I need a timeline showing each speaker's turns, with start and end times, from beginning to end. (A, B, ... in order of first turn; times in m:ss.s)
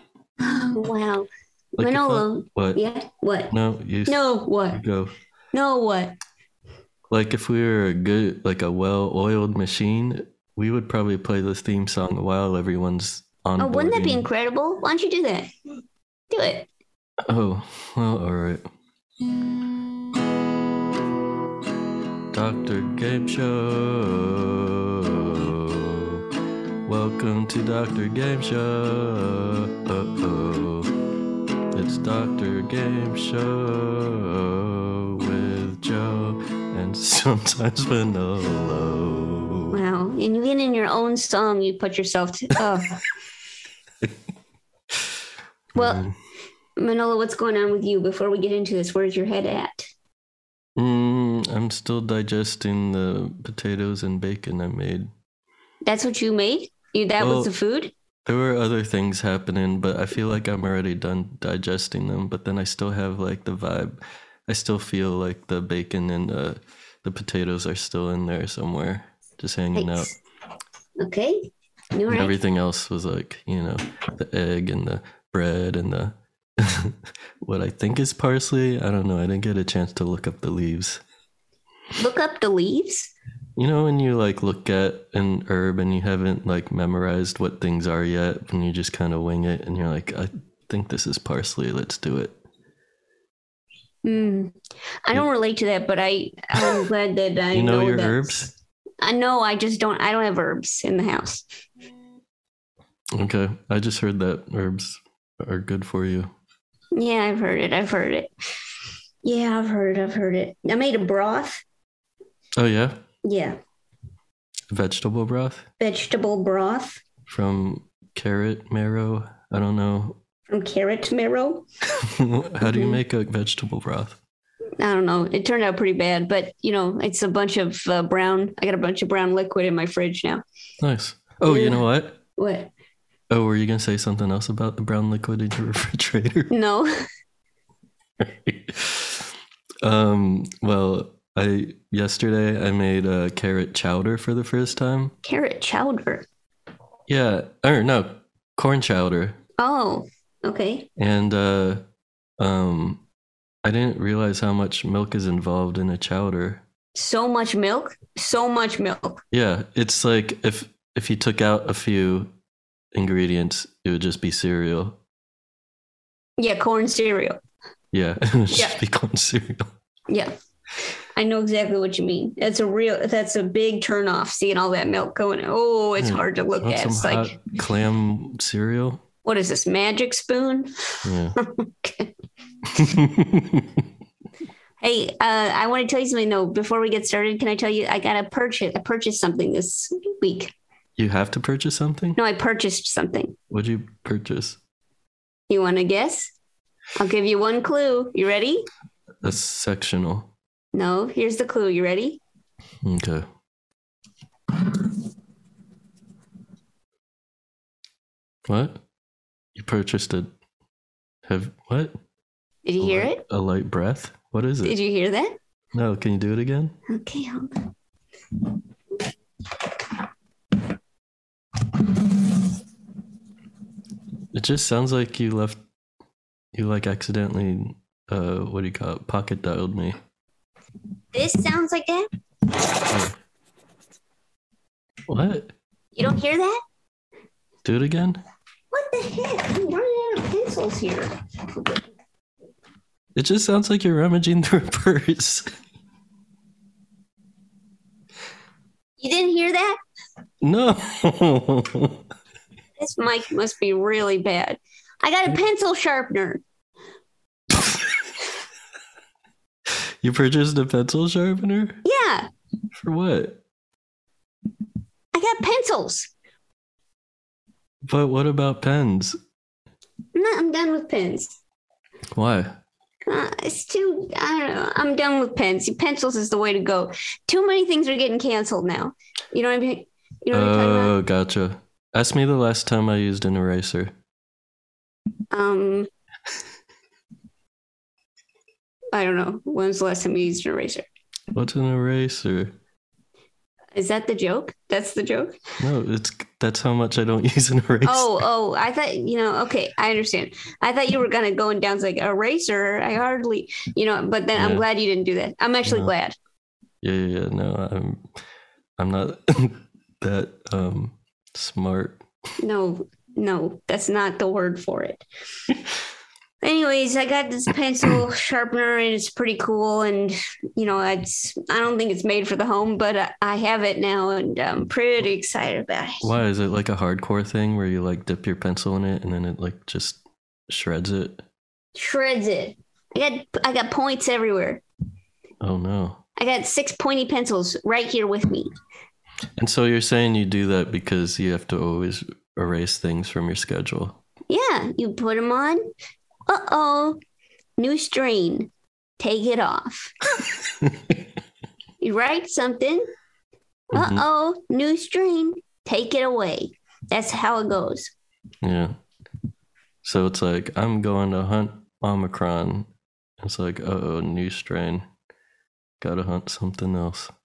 0:00.4-0:03.5 A
0:01.8-0:02.8 B
0:03.5-0:05.1 B
0:04.1-0:04.8 A
0:05.5-0:06.2 A
0:07.1-0:14.2 B
0:13.6-0:15.5 A
0:16.3-0:16.7 A
0:17.3-0:18.6 B
0:22.3-0:26.2 B
0:26.8-0:30.9 B
0:31.7-0:39.8 B
0:39.7-0:43.0 A
0:45.7-0:46.1 B
0:45.8-0:46.0 A
0:46.8-0:49.9 A
0:50.8-0:55.1 B
0:55.8-0:57.9 A
0:57.2-0:57.5 B
0:58.2-1:10.1 B
1:09.7-1:10.1 A
1:11.0-1:12.3 A
1:12.1-1:21.0 B
1:22.0-1:23.1 A
1:23.6-1:32.3 B
1:34.0-1:41.4 A
1:37.5-1:38.5 B
1:43.1-1:46.3 B
1:46.9-1:48.3 A
1:49.2-1:51.6 A
1:52.6-1:53.0 B
1:53.2-1:53.6 A
1:54.7-1:55.6 B
1:55.8-1:57.0 A
1:57.3-2:00.2 B
2:00.5-2:01.6 A
2:02.0-2:04.2 B
2:02.6-2:03.0 A
2:04.8-2:10.4 A
2:10.8-2:12.2 B
2:11.4-2:11.8 A
2:12.4-2:12.7 A
2:13.3-2:16.5 B
2:16.5-2:16.9 A
2:18.2-2:19.3 B
2:19.8-2:25.1 B
2:25.2-2:26.2 A
2:27.1-2:29.4 B
2:29.6-2:30.9 A
2:31.0-2:31.8 B
2:32.4-2:33.0 B
2:33.6-2:36.6 B
2:36.9-2:39.2 A
2:39.3-2:42.3 B
2:42.9-2:45.0 B
2:46.4-2:47.4 A
2:47.9-2:49.7 B
2:48.5-2:48.8 A
2:50.1-2:50.3 A
2:51.1-2:57.4 A
2:56.0-2:59.0 B
2:59.2-3:00.7 A
3:01.0-3:01.4 B
3:01.4-3:02.1 A
3:02.8-3:03.6 B
3:04.8-3:10.5 A
3:11.0-3:12.2 B
3:12.2-3:13.3 A
3:13.5-3:14.6 B
3:15.5-3:16.3 A
3:17.0-3:18.6 A
3:19.2-3:20.3 B
3:20.7-3:22.2 A
3:22.8-3:23.2 B
3:28.5-3:28.8 B
3:29.6-3:30.3 B
3:31.3-3:32.0 B
3:32.6-3:33.2 A
3:32.8-3:34.8 B
3:34.6-3:35.4 A
3:35.7-3:36.7 B
3:36.9-3:37.5 A
3:44.3-3:45.6 B
3:46.5-3:50.0 B
3:51.1-3:52.1 A
3:52.9-3:53.1 B
3:55.1-3:55.5 B
3:55.9-3:56.6 A
3:57.6-3:58.2 B
3:58.7-4:01.8 A
4:03.2-4:05.5 B
4:09.0-4:09.8 A
4:10.4-4:12.0 B
4:12.8-4:16.4 A
4:17.6-4:17.8 B
4:20.0-4:21.8 B
4:21.8-4:22.3 A
4:22.7-4:23.4 B
4:25.1-4:26.1 A
4:27.8-4:29.2 B
4:30.1-4:31.4 A
4:32.1-4:32.5 B
4:33.1-4:40.9 A
4:40.3-4:43.9 B
4:45.3-4:45.9 A
4:48.9-4:50.8 A
4:51.3-4:52.5 B
4:53.7-4:55.4 A
4:55.6-4:58.2 B
4:57.8-5:06.1 A
5:04.4-5:04.6 B
5:05.6-5:05.9 B
5:06.8-5:08.0 B
5:08.8-5:12.0 B
5:12.4-5:15.0 A
5:16.4-5:26.1 A
5:26.0-5:31.2 B
5:31.7-5:34.6 A
5:35.4-5:36.0 B
5:36.2-5:38.5 A
5:39.4-5:44.0 B
5:44.3-5:45.6 A
5:46.3-5:47.0 A
5:47.6-5:49.9 A
5:51.8-5:52.9 A
5:53.7-5:54.0 B
5:53.7-5:57.9 A
5:58.4-5:58.8 B
5:59.8-6:02.7 B
6:03.2-6:04.8 B
6:05.8-6:07.1 B